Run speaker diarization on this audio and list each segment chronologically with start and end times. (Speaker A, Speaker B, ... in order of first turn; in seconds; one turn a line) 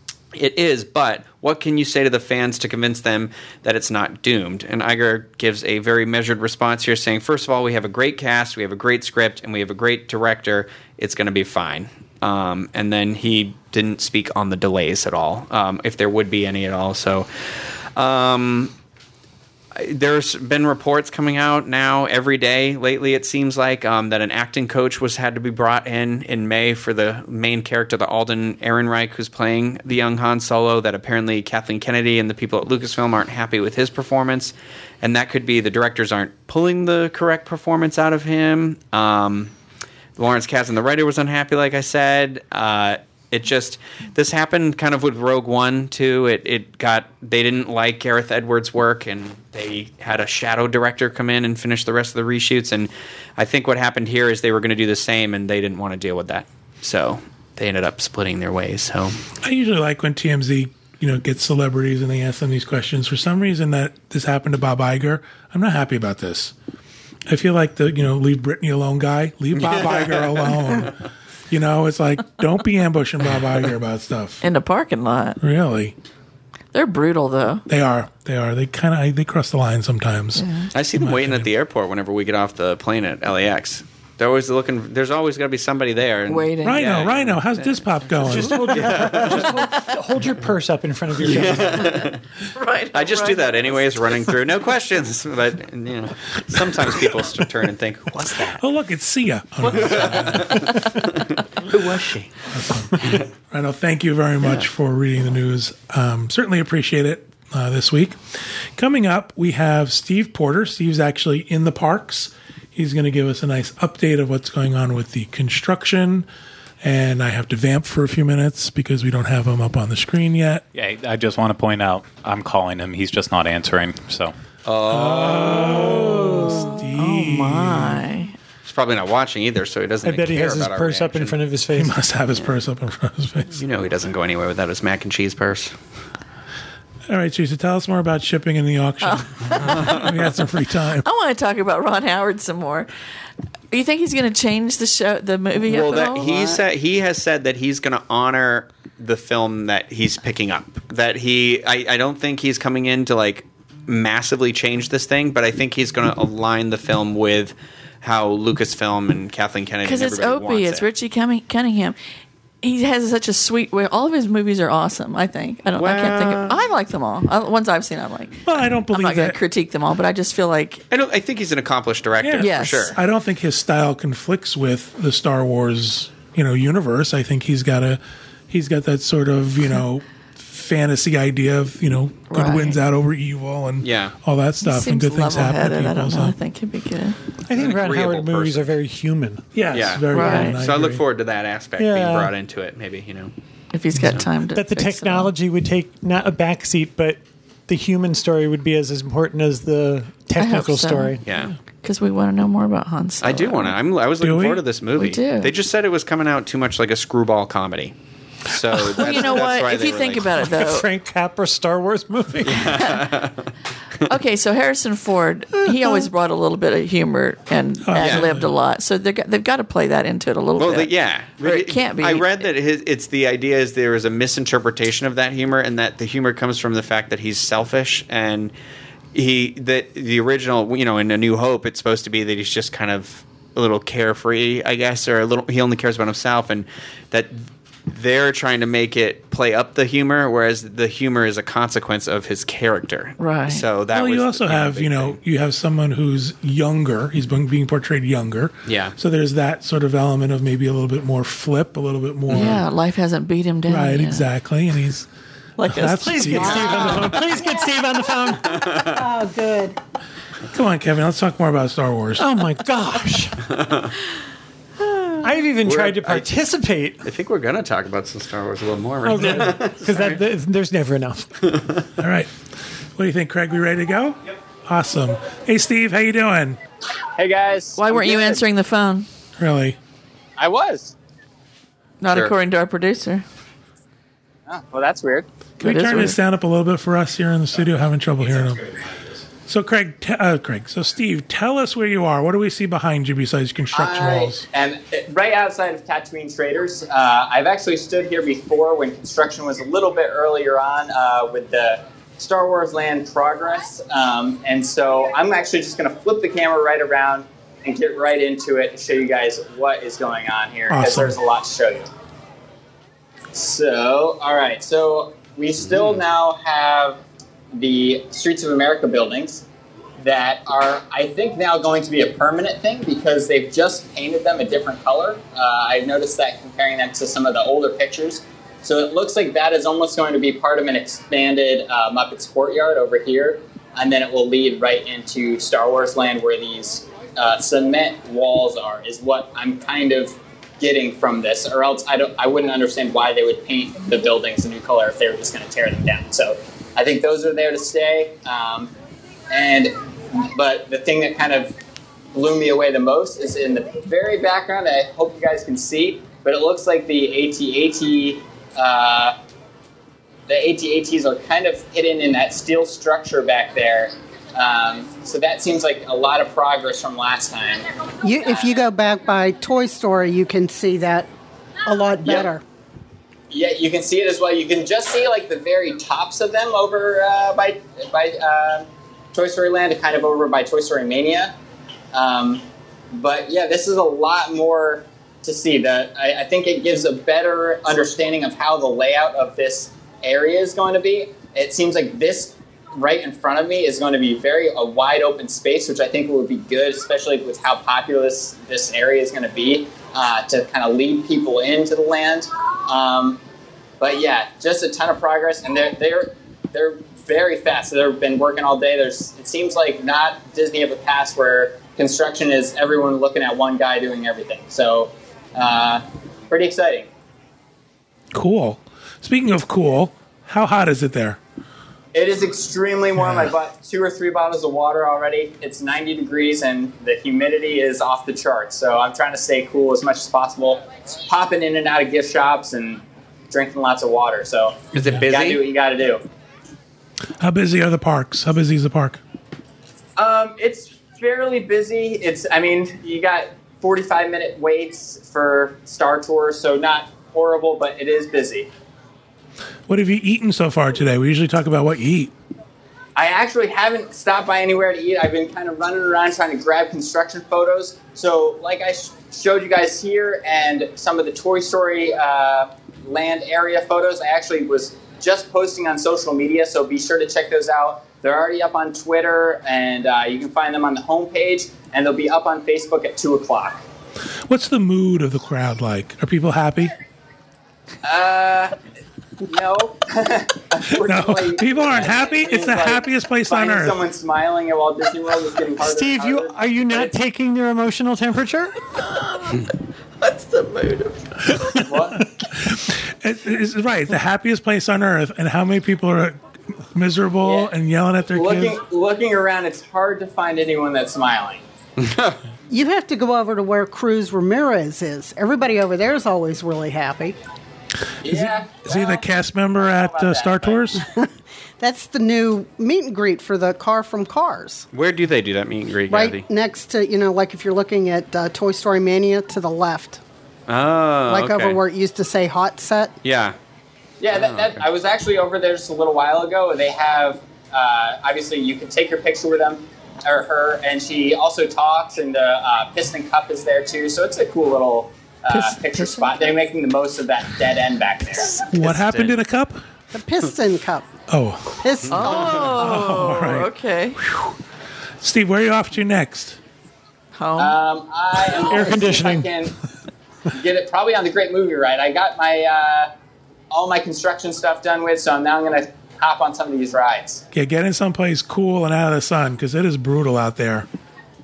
Speaker A: 0.3-17.3
Speaker A: 17.9-18.7
Speaker A: 19.7-39.5
Speaker A: 40.2-59.2
Speaker B: 59.4-66.5
Speaker B: 67.3-71.0
Speaker A: 69.6-70.5
Speaker B: 71.5-74.4
Speaker C: 74.4-75.4
Speaker B: 75.4-75.9
Speaker C: 76.7-77.6
Speaker B: 77.7-81.5
Speaker C: 80.3-80.7
Speaker A: 80.7-87.7
Speaker C: 86.3-86.8
Speaker B: 86.6-88.9
Speaker D: 88.2-92.0
Speaker A: 88.3-89.6
Speaker A: 91.2-92.2
Speaker C: 92.0-94.3
Speaker A: 92.9-98.6
Speaker B: 98.5-100.8
Speaker A: 99.7-102.3
Speaker B: 102.5-108.2
Speaker B: 108.8-116.2
Speaker B: 116.8-120.6
Speaker E: 120.7-124.3
Speaker A: 124.6-126.7
Speaker B: 124.9-128.0
Speaker C: 126.4-128.3
Speaker A: 128.6-131.4
Speaker D: 130.0-132.0
Speaker B: 131.7-133.6
Speaker A: 133.5-135.8
Speaker B: 137.1-141.1
Speaker C: 139.0-140.1
Speaker C: 141.0-142.9
Speaker C: 143.7-146.6
Speaker A: 145.7-160.8
Speaker C: 159.8-162.0
Speaker C: 162.6-170.8
Speaker A: 165.8-166.6
Speaker B: 168.4-169.4
Speaker A: 170.9-173.0
Speaker B: 172.2-186.3
Speaker C: 172.4-173.0
Speaker C: 182.3-182.8
Speaker A: 183.8-184.1
Speaker C: 184.6-187.2
Speaker D: 187.4-189.4
Speaker A: 187.5-188.7
Speaker B: 189.5-191.0
Speaker A: 189.7-193.3
Speaker C: 190.1-190.6
Speaker D: 191.8-192.3
Speaker C: 193.7-195.3
Speaker D: 194.5-201.2
Speaker C: 200.4-201.2
Speaker A: 201.2-201.5
Speaker C: 201.8-203.8
Speaker A: 203.2-207.9
Speaker B: 204.2-204.6
Speaker C: 204.9-205.5
Speaker A: 208.5-210.5
Speaker D: 208.7-209.4
Speaker C: 208.9-210.9
Speaker D: 210.4-212.8
Speaker A: 212.4-213.5
Speaker C: 212.6-213.1
Speaker C: 214.1-222.5
Speaker D: 215.7-216.1
Speaker B: 217.8-218.5
Speaker A: 218.0-218.3
Speaker A: 220.6-228.5
Speaker A: 229.1-245.2
Speaker C: 243.2-243.7
Speaker B: 243.9-252.6
Speaker A: 248.7-248.9
Speaker A: 252.3-252.6
Speaker C: 252.3-254.3
Speaker B: 253.7-255.1
Speaker C: 255.6-257.0
Speaker B: 255.6-256.9
Speaker D: 256.0-258.7
Speaker F: 256.4-259.8
Speaker A: 258.6-258.9
Speaker B: 260.5-262.3
Speaker D: 262.2-263.5
Speaker A: 263.5-263.9
Speaker C: 264.9-265.2
Speaker D: 265.2-267.1
Speaker A: 265.6-266.3
Speaker A: 267.0-270.2
Speaker D: 269.0-271.4
Speaker A: 271.4-271.8
Speaker B: 272.0-272.3
Speaker B: 272.9-276.6
Speaker G: 277.1-278.4
Speaker C: 277.8-279.1
Speaker B: 279.4-279.8
Speaker G: 280.4-280.9
Speaker C: 282.0-283.2
Speaker A: 282.1-282.3
Speaker G: 284.5-285.3
Speaker C: 285.6-286.2
Speaker B: 285.6-288.6
Speaker E: 288.4-288.8
Speaker B: 289.4-294.4
Speaker G: 293.7-311.9
Speaker B: 310.7-311.2
Speaker G: 313.3-317.0
Speaker A: 315.7-316.0
Speaker G: 317.5-319.4
Speaker G: 320.0-348.7
Speaker G: 349.3-351.5
Speaker G: 352.1-359.1
Speaker G: 360.3-367.7
Speaker F: 368.0-371.1
Speaker F: 371.6-372.4
Speaker G: 372.0-372.3
Speaker G: 373.3-381.3
Speaker G: 381.9-403.2
Speaker G: 403.8-416.9
Speaker B: 418.1-421.2
Speaker G: 421.9-436.0
Speaker B: 423.0-423.3
Speaker A: 434.7-435.4
Speaker B: 437.2-439.0
Speaker G: 440.0-448.5
Speaker B: 449.7-452.1
Speaker G: 452.9-473.6
Speaker B: 474.3-476.7
Speaker G: 477.8-478.6
Speaker G: 479.2-486.9
Speaker B: 480.7-483.8
Speaker D: 485.6-488.6
Speaker C: 488.8-491.7
Speaker B: 491.4-491.7
Speaker G: 491.6-492.1
Speaker B: 492.3-496.2
Speaker B: 496.7-498.6
Speaker G: 497.2-497.5
Speaker G: 498.1-501.4
Speaker A: 501.8-502.2
Speaker F: 502.5-507.2
Speaker G: 508.0-510.7
Speaker B: 508.0-510.8
Speaker F: 511.6-514.7
Speaker A: 514.7-516.2
Speaker F: 515.9-520.0
Speaker A: 520.5-521.6
Speaker F: 521.1-522.9
Speaker A: 523.0-523.4
Speaker G: 524.0-538.5
Speaker A: 524.1-524.6
Speaker C: 535.3-536.2
Speaker B: 538.5-539.6
Speaker A: 538.5-539.1
Speaker F: 539.9-540.9
Speaker B: 541.1-544.4
Speaker F: 541.6-542.5
Speaker C: 541.9-544.0
Speaker B: 545.0-546.4
Speaker C: 547.1-547.6
Speaker G: 547.4-549.5
Speaker D: 548.4-549.3
Speaker G: 550.3-552.9
Speaker G: 553.5-557.2
Speaker B: 557.3-560.7